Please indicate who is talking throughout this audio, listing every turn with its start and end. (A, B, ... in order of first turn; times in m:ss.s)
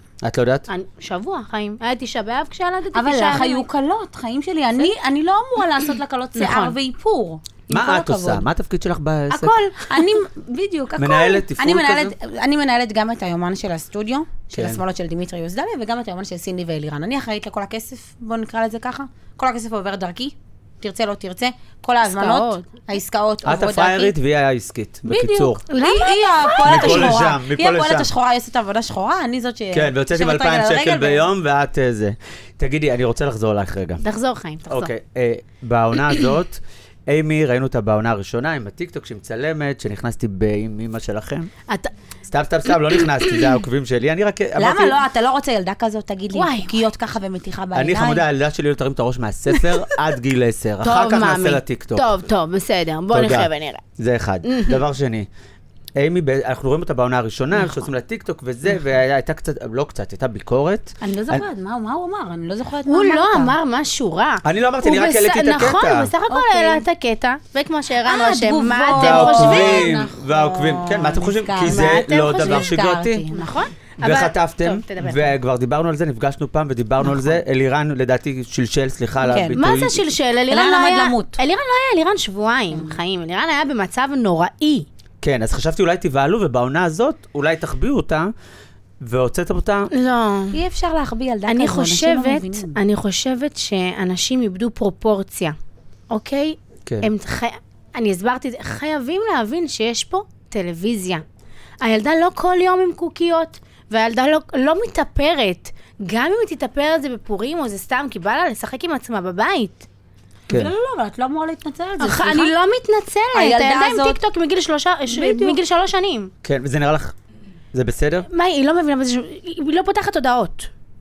0:00.2-0:00.7 A
0:00.7-0:03.6 B
0:02.9-0:08.5 C
0:06.4-0:06.7 B
0:07.7-0:09.5 A
0:09.3-0:10.0 B
0:09.8-0:24.1 C
0:11.0-0:12.1 A
0:14.5-0:14.8 A
0:22.1-0:22.6 B
0:23.4-0:25.6 A
0:25.0-0:31.3 C
0:25.7-0:27.2 B
0:26.6-0:28.1 A
0:29.7-0:34.0 A
0:34.0-0:34.9 B
0:34.7-0:41.5 A
0:42.2-0:45.0 A
0:44.6-0:48.2 C
0:46.3-0:46.8 B
0:47.8-0:52.2 A
0:50.8-0:53.8 B
0:53.1-0:55.3 A
0:54.4-0:54.8 B
0:56.0-1:01.4 A
1:01.0-1:03.5 C
1:02.9-1:10.0 B
1:04.4-1:06.1 A
1:06.3-1:06.8 C
1:08.0-1:13.6 C
1:08.9-1:13.2 A
1:11.6-1:12.8 B
1:13.3-1:15.4 B
1:14.0-1:20.1 A
1:19.2-1:19.6 C
1:19.5-1:24.9 B
1:20.5-1:21.4 C
1:22.7-1:23.0 C
1:25.2-1:28.3 A
1:29.0-1:29.9 A
1:29.9-1:30.6 B
1:30.5-1:32.8 C
1:31.5-1:35.6 B
1:36.1-1:41.2 B
1:41.8-1:49.9 B
1:50.5-1:52.5 C
1:52.0-1:56.3 B
1:53.3-1:54.2 C
1:55.1-1:55.6 C
1:56.4-1:57.1 A
1:57.7-1:58.3 A
1:58.3-2:00.7 B